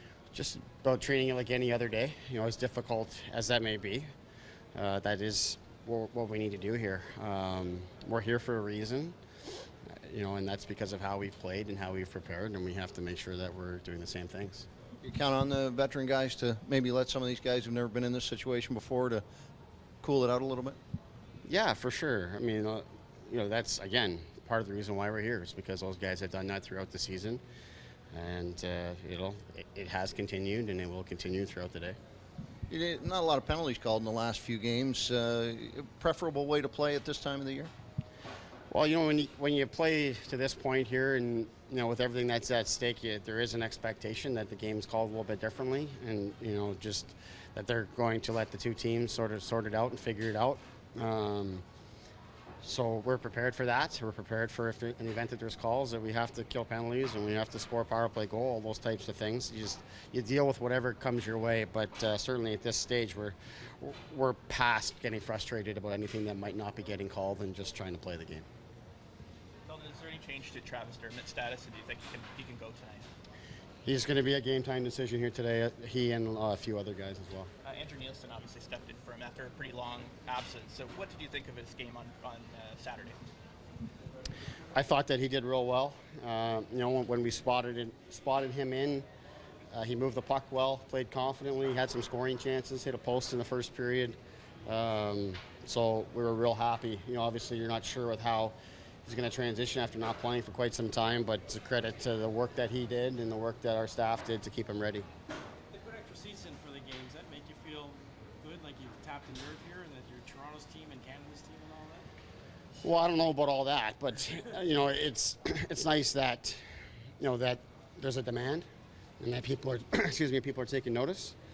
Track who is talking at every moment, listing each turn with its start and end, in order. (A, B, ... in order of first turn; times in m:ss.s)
0:00.3-0:04.1 A
0:04.8-0:09.2 A
0:10.0-0:14.7 A
0:15.0-0:19.2 B
0:20.0-0:20.8 B
0:21.4-0:27.4 A
0:28.1-0:32.0 A
0:32.7-0:37.7 B
0:38.7-0:51.6 A
0:52.6-1:08.5 A
1:09.7-1:13.1 C
1:13.9-1:17.5 A
1:17.6-1:23.2 C
1:24.7-1:29.1 A
1:29.7-1:45.1 A
1:45.7-1:52.1 D
1:52.8-1:56.6 A
1:57.2-1:58.6 A
1:59.2-2:01.4 A